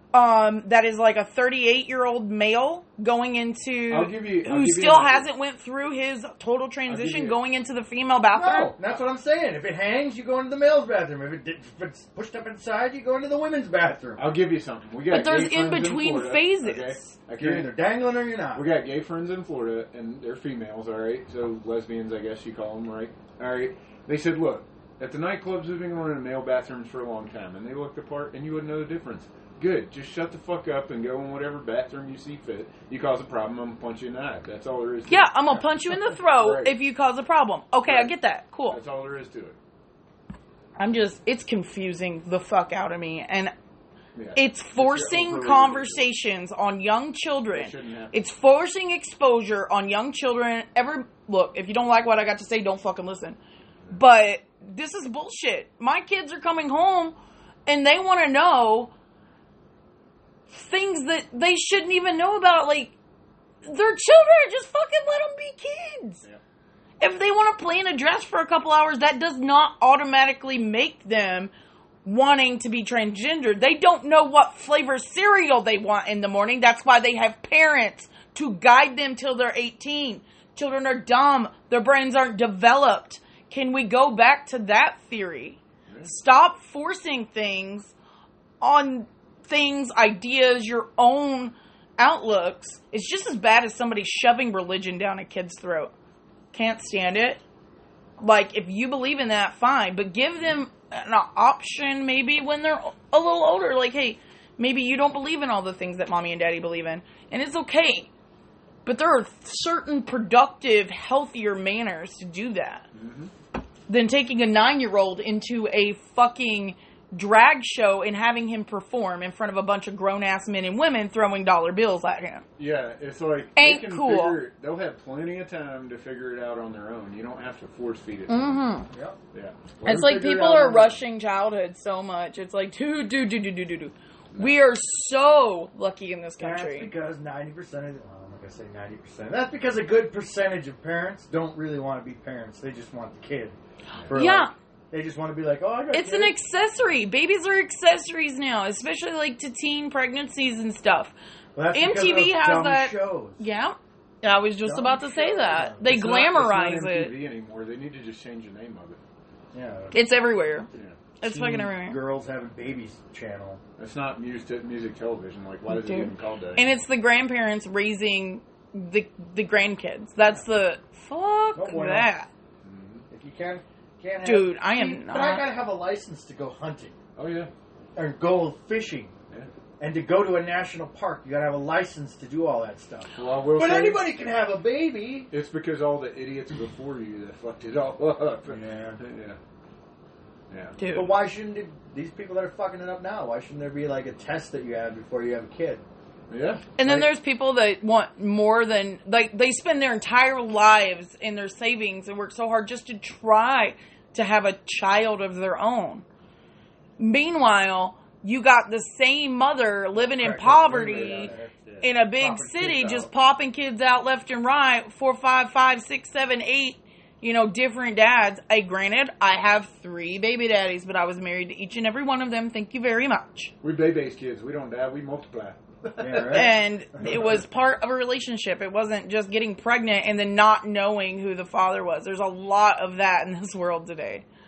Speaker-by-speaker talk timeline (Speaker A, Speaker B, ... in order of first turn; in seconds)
Speaker A: 0.1-8.7, 15.1-17.1, 35.1-38.8, 40.8-43.5, 44.4-53.4, 53.9-57.1, 57.7-58.9, 60.5-63.0, 63.6-66.2, 67.0-71.5, 72.0-87.9, 88.6-95.9, 96.5-97.4, 98.2-108.1, 108.8-112.9, 113.9-122.4, 123.6-124.4, 128.3-128.9, 129.8-136.9, 144.1-144.5, 145.9-151.1, 151.7-157.1, 159.9-160.7, 161.2-162.0, 165.7-172.3, 174.2-175.4, 190.8-191.1, 196.8-206.1, 207.0-223.5, 226.3-234.2
Speaker B: 3.9-5.3, 6.9-7.4, 8.4-8.7, 14.2-17.7, 18.5-35.6, 36.1-36.8, 37.9-38.1, 38.7-39.6, 44.1-46.1, 47.5-48.2, 112.9-113.3, 122.6-128.7, 129.3-131.0, 155.8-159.0, 163.8-166.8, 172.6-173.1, 177.2-177.5, 183.1-184.1, 185.3-189.4, 190.5-190.8, 196.3-196.7, 210.5-211.3, 223.6-226.6
Speaker C: 8.4-14.2, 17.4-18.7, 128.9-129.2, 136.4-143.6, 144.1-146.3, 151.6-153.4, 154.7-155.8, 159.5-160.0, 161.2-163.6, 171.6-172.1, 173.1-177.0, 178.0-179.1, 179.8-185.3, 188.5-189.0, 190.9-195.8, 196.8-197.1, 210.2-213.1, 226.0-227.2